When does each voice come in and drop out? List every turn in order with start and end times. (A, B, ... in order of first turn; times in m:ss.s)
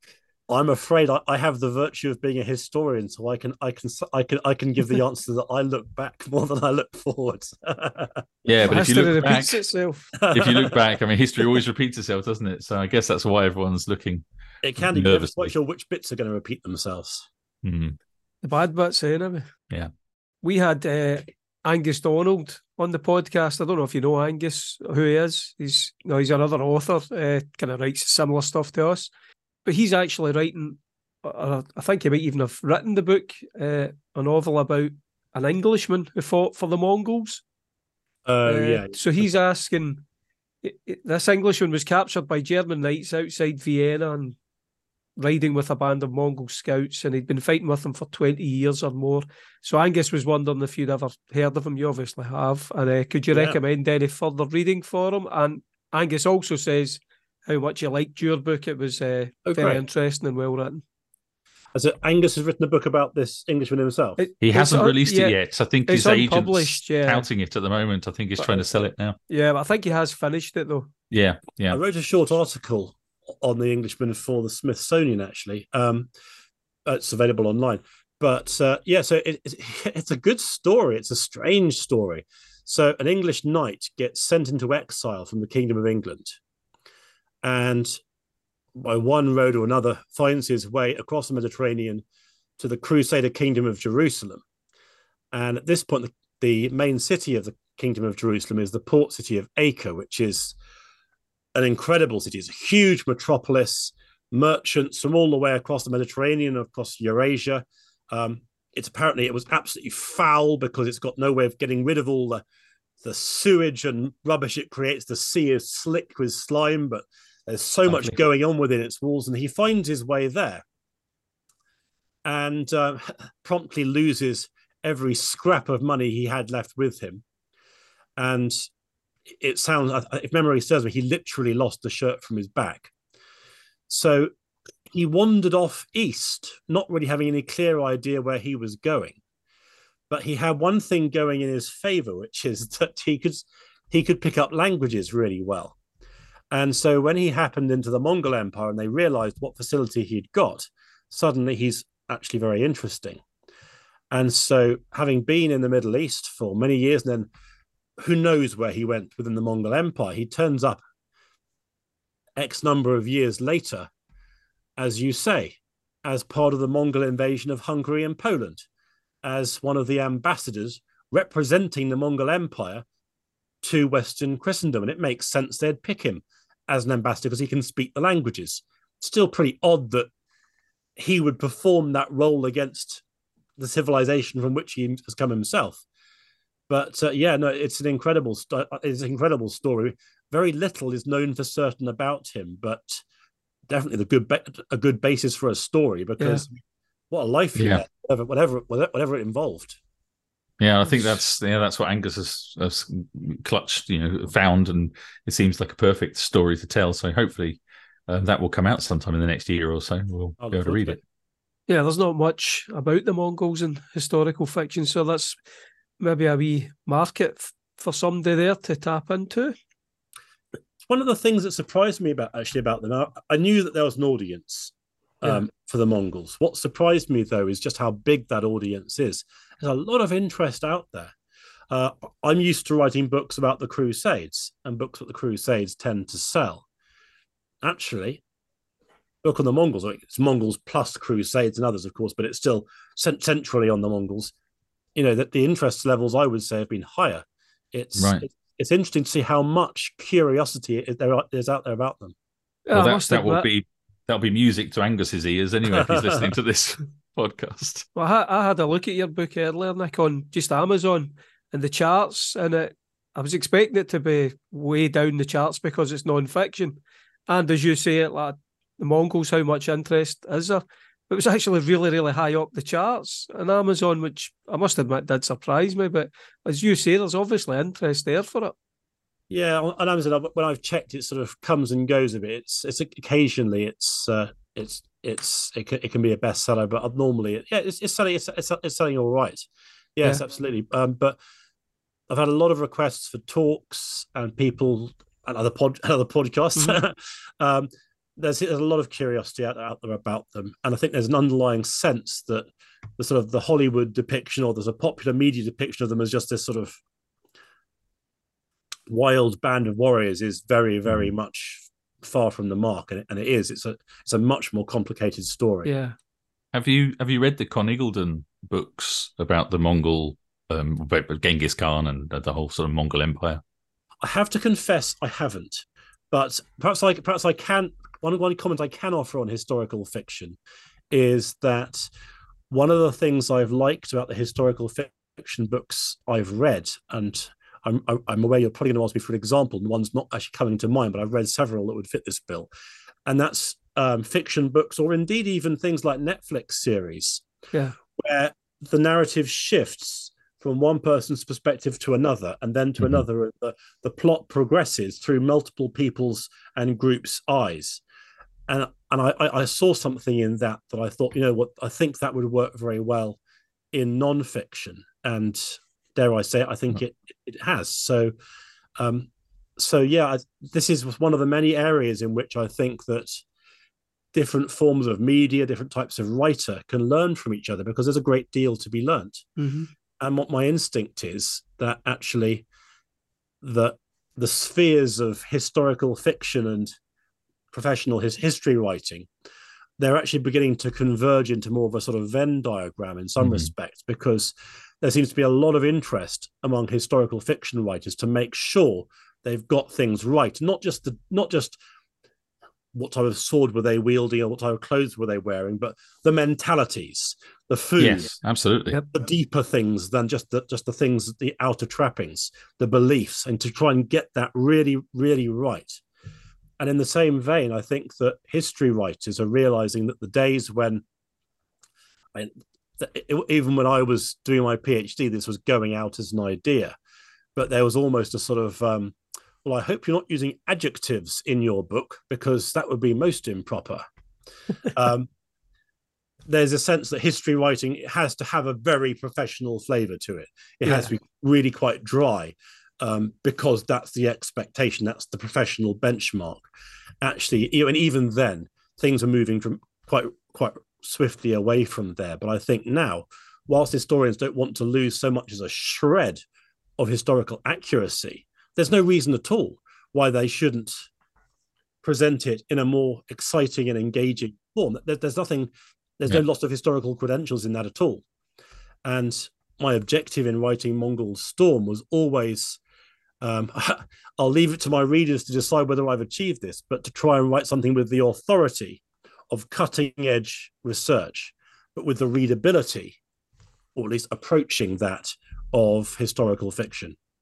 0:00.5-0:08.2 A
0:08.4-0:09.6 B
0:08.7-0:10.1 C
0:10.2-0:10.8 A
0:10.3-0:14.2 B
0:14.6-0:17.3 A
0:14.8-0:15.5 B
0:17.6-0:18.0 B
0:18.4-0:19.5 C
0:20.4-0:29.1 C
0:29.6-0:37.4 C
0:38.3-0:39.3 A
0:38.5-0:40.0 C
0:40.6-0:44.4 C
0:45.2-1:00.8 C
0:53.3-0:53.6 A
0:59.5-0:59.8 A
1:01.8-1:04.2 A
1:04.2-1:05.4 C
1:04.4-1:09.2 B
1:05.9-1:07.3 C
1:09.3-1:10.9 C
1:11.1-1:11.8 B
1:11.7-1:16.1 A
1:16.9-1:26.4 A
1:27.4-1:28.0 A
1:28.8-1:32.0 A
1:32.6-1:34.4 A
1:35.3-1:40.6 A
1:41.6-1:52.4 A
1:53.0-2:00.6 A
2:02.2-2:07.2 A
2:08.2-2:08.6 A
2:09.3-2:12.9 A
2:13.9-2:14.3 A
2:14.9-2:19.2 A
2:20.1-2:25.8 A
2:26.5-2:33.2 A
2:34.1-2:37.3 A
2:38.0-2:40.8 A
2:42.4-2:43.9 A
2:44.8-2:48.7 A
2:49.2-2:52.8 A
2:53.6-3:00.1 A
3:01.0-3:03.0 A
3:03.6-3:05.8 A
3:06.7-3:13.0 A
3:13.7-3:16.6 A
3:16.2-3:16.4 C
3:17.1-3:19.8 A
3:17.6-3:17.8 B
3:20.6-3:31.0 B
3:30.4-3:31.0 A
3:31.7-3:35.4 C
3:36.0-3:39.5 C
3:40.9-3:51.1 A
3:51.7-3:56.7 A
3:57.6-3:58.2 A
3:59.2-4:04.3 A
4:05.0-4:12.2 A
4:08.0-4:08.2 B
4:12.7-4:13.5 C
4:12.7-4:17.9 B
4:15.7-4:16.2 A
4:18.0-4:38.6 C
4:39.3-4:51.2 A
4:52.1-5:06.8 A
5:08.9-5:15.7 A
5:15.6-5:16.0 C
5:16.5-5:23.4 B
5:24.0-5:30.4 A
5:30.9-5:31.9 A
5:32.5-5:42.5 A
5:43.1-5:47.2 A
5:48.0-5:57.8 A
5:58.5-6:03.2 A
6:03.7-6:08.1 A
6:08.8-6:13.2 A
6:14.1-6:19.3 A
6:19.4-6:19.7 C
6:20.0-6:22.4 A
6:23.4-6:26.7 A
6:27.5-6:29.1 A
6:29.8-6:41.6 A
6:33.2-6:33.5 B
6:42.7-6:48.1 A
6:47.8-6:48.8 B
6:48.9-6:55.8 A
6:56.6-7:00.8 A
7:02.2-7:06.8 A
7:07.4-7:13.8 A
7:14.7-7:15.1 A
7:16.3-7:26.5 A
7:27.0-7:36.2 A
7:36.8-7:40.9 A
7:41.8-7:48.0 A
7:48.8-7:52.6 A
7:53.2-8:03.0 A
8:03.8-8:07.0 A